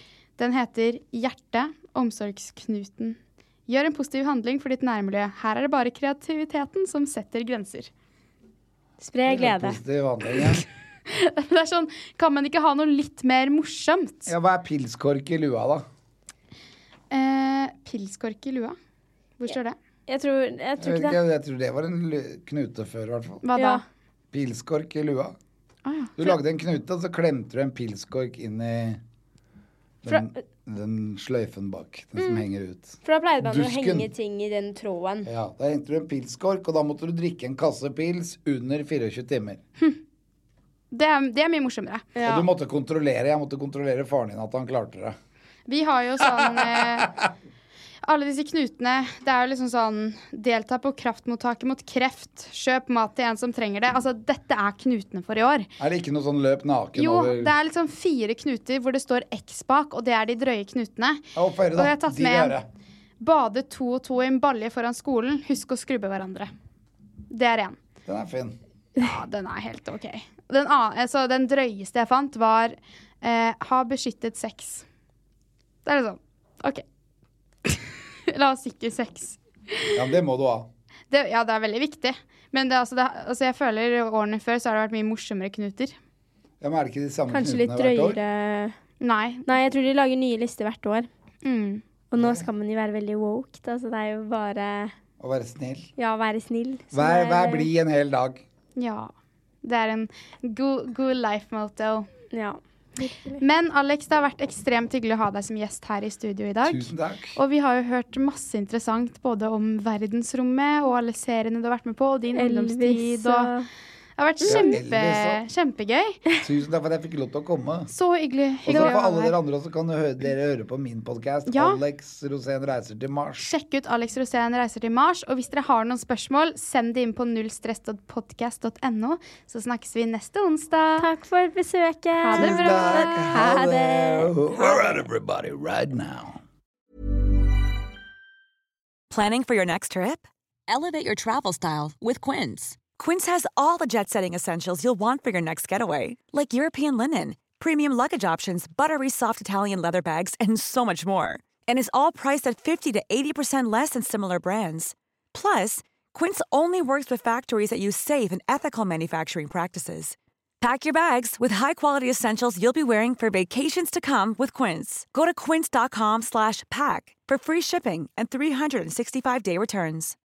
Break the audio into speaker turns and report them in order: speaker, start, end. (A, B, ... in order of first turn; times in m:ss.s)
0:00.4-0:07.9 A
0:09.0-0:09.8 B
0:09.3-0:10.6 C
0:11.1-0:14.3 A
0:14.3-0:15.8 C
0:17.1-0:18.8 A
0:19.4-0:19.8 A
0:20.1-0:21.2 B
0:20.8-0:23.4 C
0:23.4-0:23.8 A
0:23.6-0:23.8 B
0:24.3-0:25.4 C
0:25.8-0:26.3 A
0:26.2-0:29.0 C
0:30.0-0:34.1 C
0:32.2-0:32.5 B
0:33.0-0:35.3 B
0:35.2-0:39.6 C
0:40.9-0:42.2 A
0:42.2-0:42.4 B
0:42.2-0:45.2 C
0:45.7-0:47.2 A
0:46.2-0:47.1 C
0:48.0-0:55.7 A
0:55.8-0:57.5 C
0:57.0-1:01.2 A
1:01.3-1:02.7 C
1:01.8-1:02.6 A
1:03.2-1:06.5 A
1:07.3-1:07.8 A
1:08.1-1:08.6 C
1:09.0-1:14.8 A
1:15.8-1:16.8 A
1:17.6-1:20.0 A
1:19.9-1:20.7 C
1:21.1-1:26.0 A
1:26.6-1:28.2 C
1:27.3-1:28.8 B
1:29.0-1:29.5 A
1:29.5-1:31.1 B
1:31.4-1:31.8 A
1:32.1-1:34.9 B
1:32.2-1:32.5 C
1:35.2-1:35.9 C
1:36.0-1:37.7 B
1:36.9-1:38.4 C
1:38.8-1:39.1 A
1:39.6-1:42.1 A
1:42.3-1:43.4 B
1:43.4-1:53.5 A
1:46.6-1:47.4 C
1:52.4-1:53.7 B
1:54.2-1:56.2 A
1:54.4-1:54.7 B
1:54.4-1:55.4 C
1:56.4-1:57.9 C
1:57.9-1:59.2 A
1:58.6-2:03.5 C
1:58.7-1:59.3 B
2:01.5-2:01.8 A
2:03.4-2:11.1 A
2:11.0-2:15.0 B
2:12.2-2:13.3 A
2:12.3-2:16.4 C
2:19.1-2:50.2 D